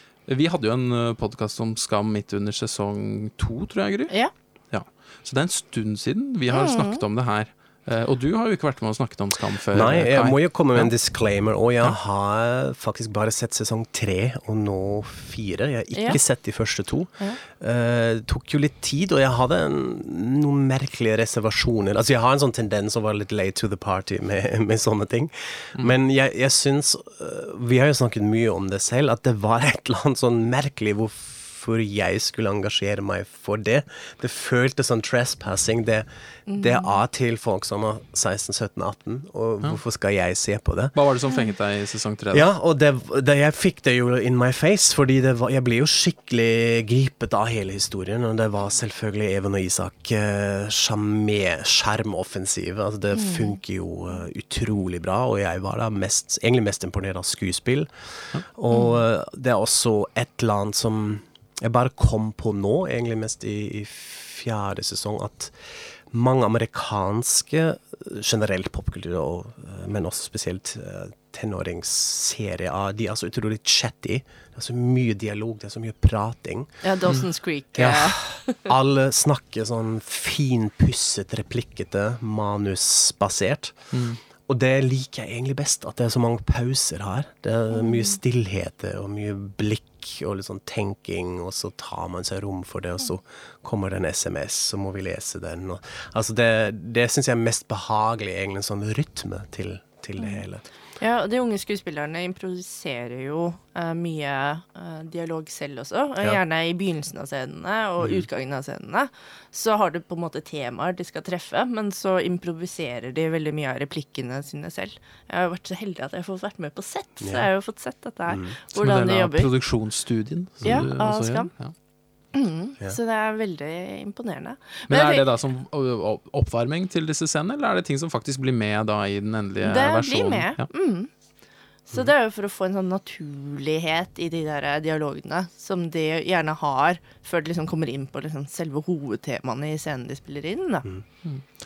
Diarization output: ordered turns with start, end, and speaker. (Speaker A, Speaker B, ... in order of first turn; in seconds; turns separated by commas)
Speaker A: 0.3-10.9, Speaker B: 6.5-7.0, Speaker C: 9.7-40.9, Speaker B: 36.5-36.9, Speaker A: 40.9-42.5, Speaker C: 42.3-77.1, Speaker B: 53.2-53.5, Speaker B: 58.7-59.0, Speaker B: 76.8-78.7, Speaker C: 77.8-83.9, Speaker A: 83.9-84.2, Speaker C: 84.4-100.7, Speaker B: 87.9-88.1, Speaker B: 100.2-100.4, Speaker B: 101.0-119.5, Speaker C: 108.0-108.3, Speaker C: 117.2-117.5, Speaker C: 118.3-118.6, Speaker A: 118.7-121.8, Speaker C: 120.6-120.9, Speaker B: 120.6-121.5, Speaker B: 122.3-125.2, Speaker A: 124.9-130.7, Speaker B: 129.6-131.1, Speaker B: 131.9-140.9